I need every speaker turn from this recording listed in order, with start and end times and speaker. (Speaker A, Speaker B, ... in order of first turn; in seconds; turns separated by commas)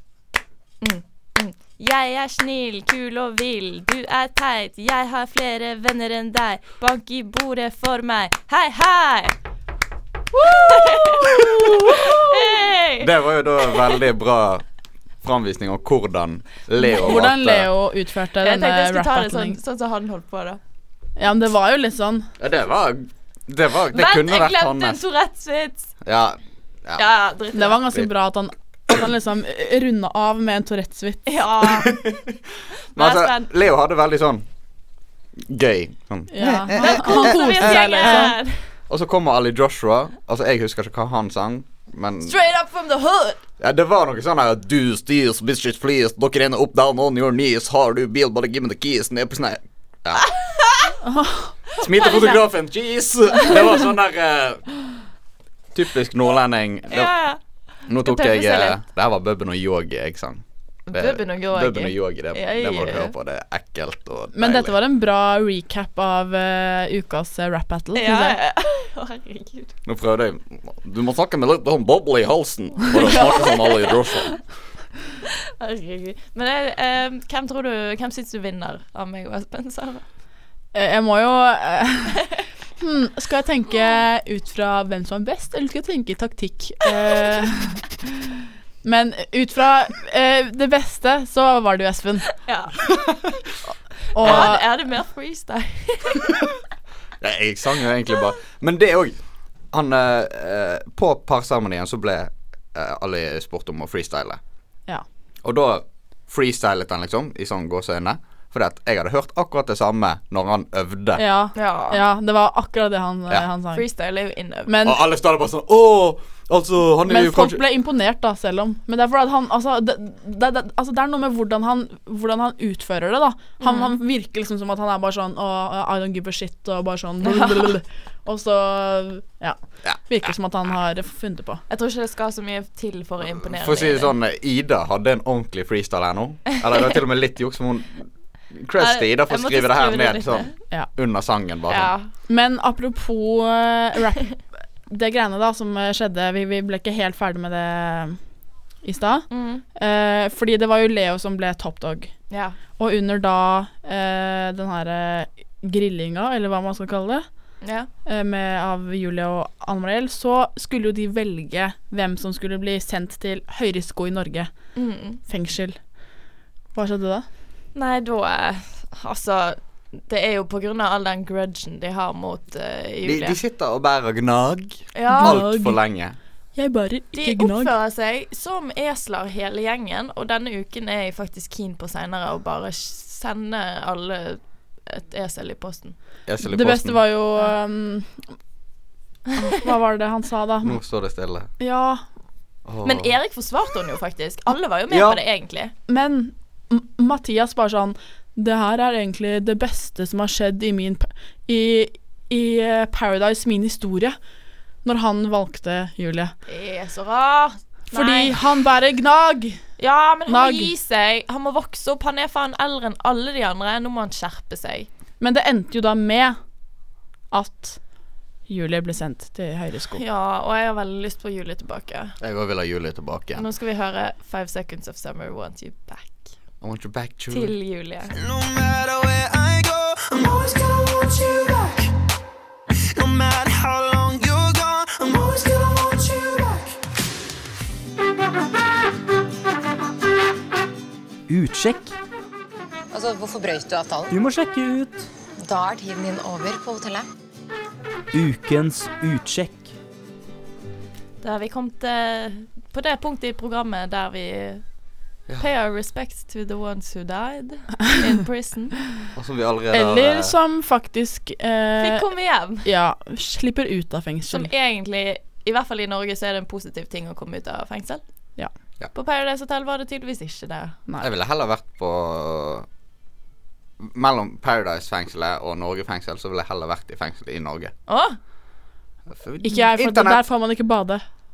Speaker A: 0.8-9.3, Speaker B: 10.4-12.2, Speaker A: 10.4-14.0, Speaker C: 11.4-11.9, Speaker C: 13.0-14.6, Speaker C: 15.2-17.7, Speaker B: 16.8-19.6, Speaker A: 18.4-20.6, Speaker B: 21.2-22.3, Speaker C: 22.4-25.0, Speaker A: 23.9-25.9, Speaker C: 26.0-27.1, Speaker A: 26.9-27.9, Speaker B: 27.5-31.2, Speaker A: 31.2-32.0, Speaker C: 31.8-32.4, Speaker A: 32.9-33.5, Speaker C: 32.9-34.5, Speaker C: 35.4-38.3, Speaker B: 36.3-38.3, Speaker A: 36.7-38.6, Speaker C: 38.9-42.3, Speaker A: 42.2-43.4, Speaker C: 43.6-50.2, Speaker A: 50.2-50.9, Speaker B: 51.0-51.5, Speaker C: 51.8-54.6, Speaker A: 51.9-52.4, Speaker C: 55.7-57.1, Speaker A: 56.9-57.4, Speaker C: 57.9-64.8, Speaker A: 57.9-58.8, Speaker A: 60.9-63.1, Speaker B: 64.3-68.4, Speaker A: 67.9-69.7, Speaker C: 69.8-74.4, Speaker A: 73.1-73.6, Speaker A: 75.6-80.0, Speaker B: 80.7-82.2, Speaker B: 82.8-88.2, Speaker B: 88.8-92.3, Speaker A: 92.4-92.8, Speaker B: 94.1-94.7, Speaker A: 94.2-96.4, Speaker C: 94.2-94.5, Speaker C: 97.2-99.2, Speaker C: 99.7-104.4, Speaker C: 105.4-111.2, Speaker B: 111.1-113.8, Speaker A: 111.5-112.0, Speaker A: 113.7-114.7, Speaker B: 114.7-115.0, Speaker C: 114.8-117.6, Speaker B: 117.0-131.6, Speaker A: 123.6-124.0, Speaker A: 127.2-127.7, Speaker C: 129.8-130.3, Speaker A: 131.7-134.1, Speaker C: 133.4-141.9, Speaker A: 138.8-140.5, Speaker A: 141.7-142.1, Speaker B: 142.3-144.4, Speaker B: 144.9-148.2, Speaker B: 148.8-152.1, Speaker A: 149.3-149.6, Speaker A: 152.3-152.6, Speaker B: 152.8-157.2, Speaker A: 157.6-157.9, Speaker B: 158.1-164.5, Speaker A: 164.8-165.2, Speaker B: 165.3-165.8, Speaker B: 166.7-167.2, Speaker A: 167.7-173.4, Speaker C: 173.0-176.2, Speaker A: 174.9-175.4, Speaker B: 175.1-175.8, Speaker B: 176.6-177.7, Speaker A: 177.1-185.9, Speaker C: 186.3-187.0, Speaker B: 186.4-188.2, Speaker B: 189.3-190.8, Speaker C: 190.6-191.5, Speaker B: 191.6-192.0, Speaker C: 192.7-193.2, Speaker A: 192.8-195.7, Speaker C: 194.9-195.2, Speaker B: 195.9-204.2, Speaker B: 204.8-206.3, Speaker A: 206.5-208.4, Speaker B: 207.9-209.6, Speaker A: 209.8-214.9, Speaker B: 210.3-210.7, Speaker B: 215.2-216.4, Speaker B: 217.3-217.8, Speaker B: 218.5-220.0, Speaker A: 219.9-222.2, Speaker C: 222.2-223.4, Speaker A: 223.3-226.2, Speaker C: 226.6-227.5, Speaker A: 227.3-228.1, Speaker D: 228.1-231.9, Speaker D: 232.9-236.7, Speaker E: 241.3-241.9, Speaker F: 242.9-244.1, Speaker E: 244.1-245.1, Speaker F: 245.4-247.0, Speaker E: 248.1-249.7, Speaker A: 251.2-254.6, Speaker A: 255.4-258.8, Speaker C: 259.1-260.3, Speaker B: 259.7-262.1, Speaker A: 261.8-262.7, Speaker B: 262.6-264.5, Speaker A: 264.3-268.0, Speaker A: 268.9-270.8, Speaker C: 271.0-272.6, Speaker C: 273.8-277.7, Speaker A: 277.9-278.2, Speaker C: 279.1-280.2, Speaker B: 279.4-281.0